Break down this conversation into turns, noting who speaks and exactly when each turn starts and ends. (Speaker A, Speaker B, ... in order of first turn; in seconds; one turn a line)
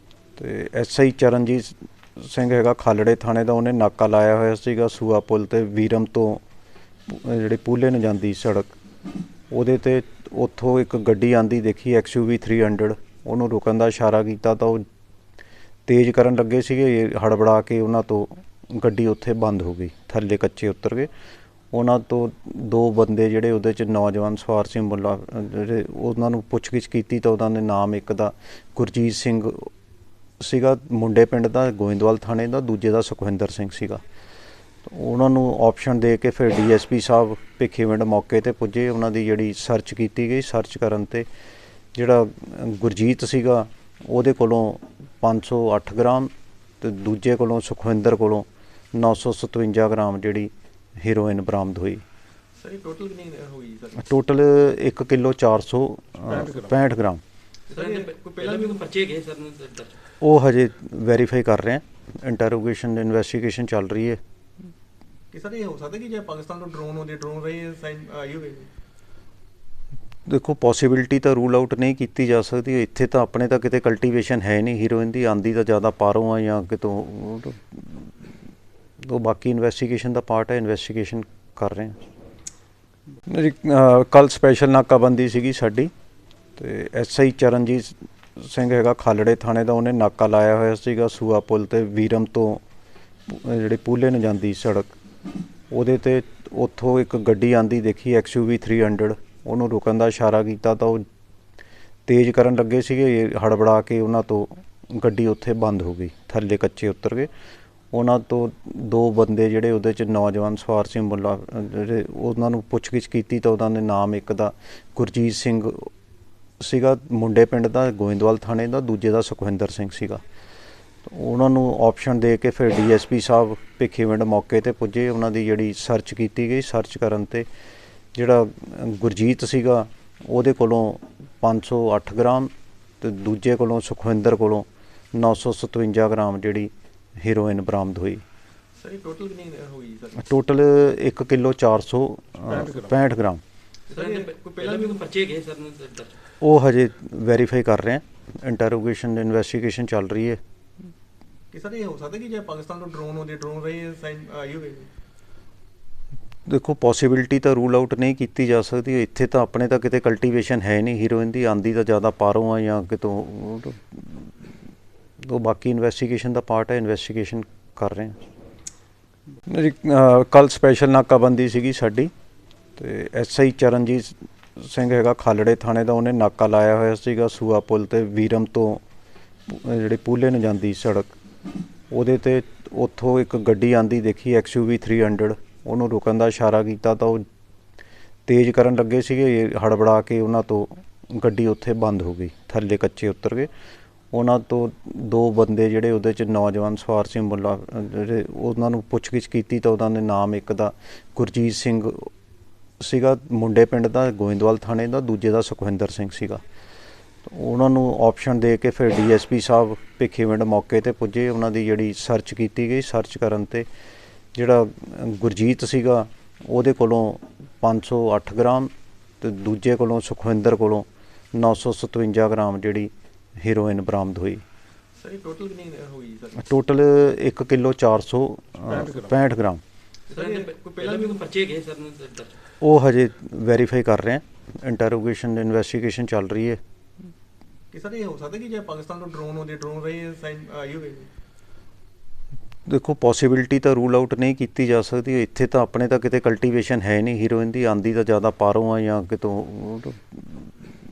Speaker A: 0.4-6.4
Speaker A: 7.1-8.8
Speaker A: 9.5-14.8
Speaker A: 15.8-21.1
Speaker A: 21.7-29.7
Speaker A: 30.4-34.0
Speaker A: 34.8-41.2
Speaker A: 41.9-52.0
Speaker B: 52.5-54.1
Speaker A: 54.0-57.2
Speaker B: 57.7-58.9
Speaker C: 57.7-60.0
Speaker A: 60.2-64.2
Speaker B: 65.3-68.7
Speaker A: 70.2-78.1
Speaker A: 79.0-82.0
Speaker A: 83.3-85.9
Speaker A: 86.6-92.6
Speaker A: 93.3-95.0
Speaker A: 95.7-101.0
Speaker A: 102.0-107.3
Speaker A: 107.9-115.9
Speaker A: 116.6-120.2
Speaker A: 121.0-127.5
Speaker A: 128.1-138.2
Speaker B: 138.8-140.3
Speaker A: 140.2-143.4
Speaker B: 143.9-145.1
Speaker C: 143.9-146.2
Speaker A: 146.4-150.4
Speaker B: 151.5-154.9
Speaker A: 156.4-164.3
Speaker A: 165.2-168.2
Speaker A: 169.5-172.1
Speaker A: 172.8-178.8
Speaker A: 179.5-181.2
Speaker A: 181.9-187.2
Speaker A: 188.2-193.5
Speaker A: 194.1-202.1
Speaker A: 202.8-206.4
Speaker A: 207.2-213.7
Speaker A: 214.3-224.4
Speaker B: 224.9-226.5
Speaker A: 226.4-229.6
Speaker B: 230.1-231.3
Speaker C: 230.1-232.4
Speaker A: 232.6-236.6
Speaker B: 237.7-241.1
Speaker A: 242.7-250.5